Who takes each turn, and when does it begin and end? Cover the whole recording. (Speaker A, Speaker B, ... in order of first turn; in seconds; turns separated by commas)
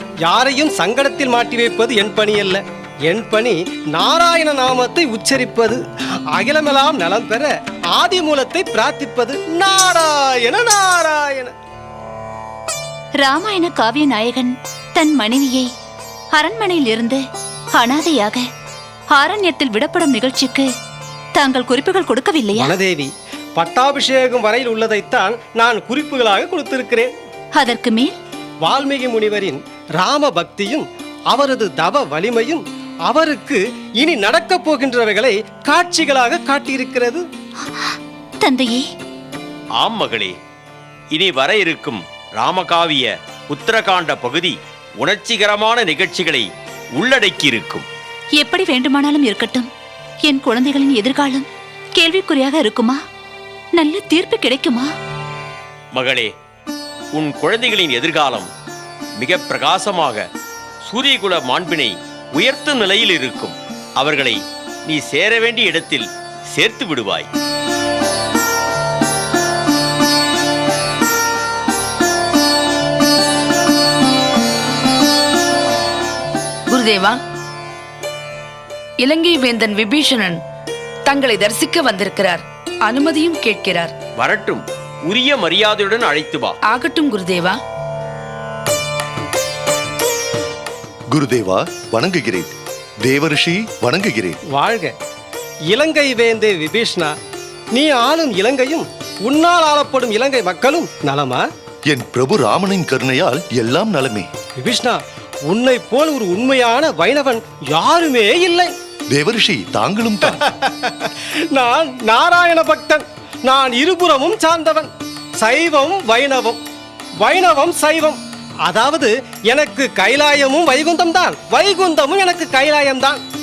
Speaker A: 0.2-11.5, Speaker B: 13.2-15.7, Speaker B: 16.3-17.2, Speaker B: 17.7-18.4, Speaker B: 19.1-20.7, Speaker B: 21.3-22.7, Speaker A: 22.6-27.1, Speaker B: 27.5-28.1, Speaker A: 28.6-37.2, Speaker B: 38.4-38.9, Speaker C: 39.8-40.3, Speaker C: 41.1-47.9, Speaker B: 48.4-49.7, Speaker B: 50.2-53.0, Speaker B: 53.8-54.9, Speaker C: 55.9-56.3, Speaker C: 57.1-58.5, Speaker C: 59.2-60.2, Speaker C: 60.8-67.3, Speaker D: 76.7-77.2, Speaker D: 79.0-80.4, Speaker D: 81.1-83.9, Speaker C: 84.2-86.6, Speaker D: 86.7-87.5, Speaker E: 91.1-92.5, Speaker E: 93.0-94.4, Speaker A: 94.5-94.9, Speaker A: 95.7-97.1, Speaker A: 97.7-101.4, Speaker E: 101.9-104.3, Speaker A: 104.6-108.7, Speaker E: 109.1-110.4, Speaker A: 110.2-114.9, Speaker A: 115.4-116.6, Speaker A: 117.2-123.2